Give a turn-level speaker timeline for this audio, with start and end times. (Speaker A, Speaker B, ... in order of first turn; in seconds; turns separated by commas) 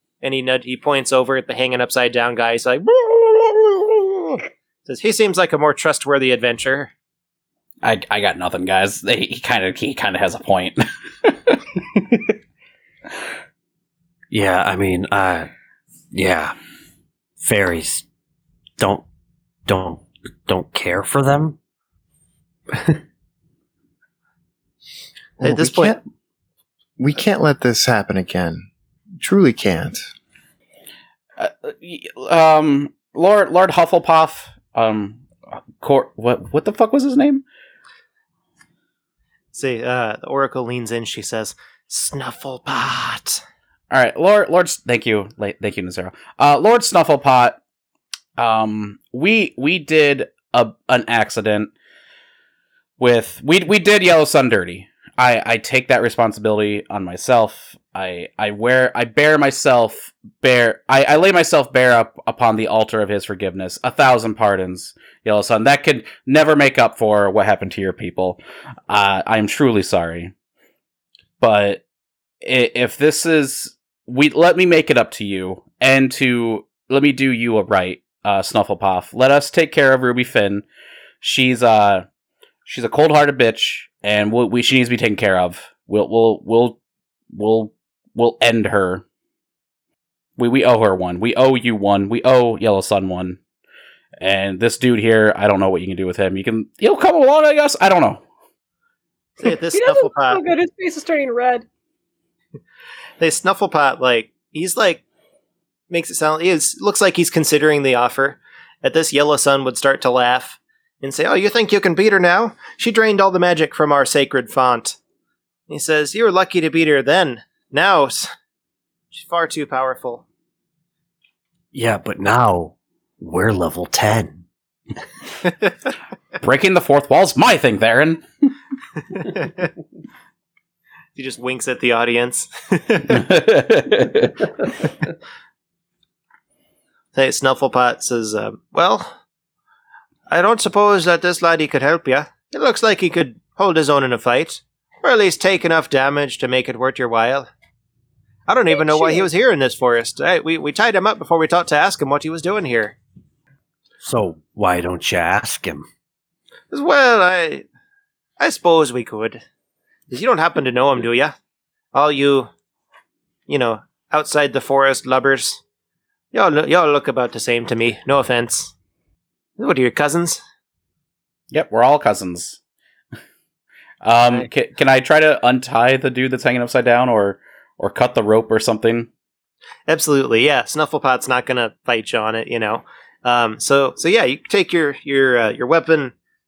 Speaker A: 0.2-6.9, Speaker B: 7.8-11.6, Speaker C: 14.3-15.5, Speaker C: 16.1-16.6, Speaker C: 17.4-18.1, Speaker C: 18.8-19.1, Speaker C: 19.7-21.6, Speaker D: 25.4-26.0, Speaker A: 25.4-26.0, Speaker D: 27.0-28.7, Speaker D: 29.2-30.0, Speaker B: 31.4-35.2, Speaker B: 35.8-37.4, Speaker A: 39.5-43.4, Speaker B: 43.9-47.6, Speaker B: 48.4-51.7, Speaker B: 53.0-70.3, Speaker B: 71.4-71.8, Speaker B: 72.4-80.6, Speaker B: 81.2-82.1, Speaker B: 82.7-86.8, Speaker B: 87.3-89.0, Speaker B: 90.4-93.4, Speaker B: 94.2-98.2, Speaker A: 99.4-100.5, Speaker E: 99.4-101.7, Speaker A: 103.2-105.0, Speaker A: 105.9-115.0, Speaker A: 115.7-118.3, Speaker A: 119.1-120.2, Speaker C: 121.7-124.4, Speaker B: 126.4-128.2, Speaker A: 129.3-129.7, Speaker A: 131.2-133.2, Speaker B: 133.1-134.4, Speaker A: 137.1-139.2, Speaker A: 140.3-147.5, Speaker A: 148.5-153.0, Speaker E: 148.7-149.3, Speaker C: 154.0-155.9, Speaker A: 156.7-157.7, Speaker A: 158.4-159.4, Speaker A: 160.1-161.3, Speaker A: 161.9-162.5, Speaker A: 163.5-165.6, Speaker A: 166.3-168.7, Speaker A: 169.6-170.4, Speaker B: 171.5-172.6, Speaker B: 174.0-179.1, Speaker A: 179.9-186.1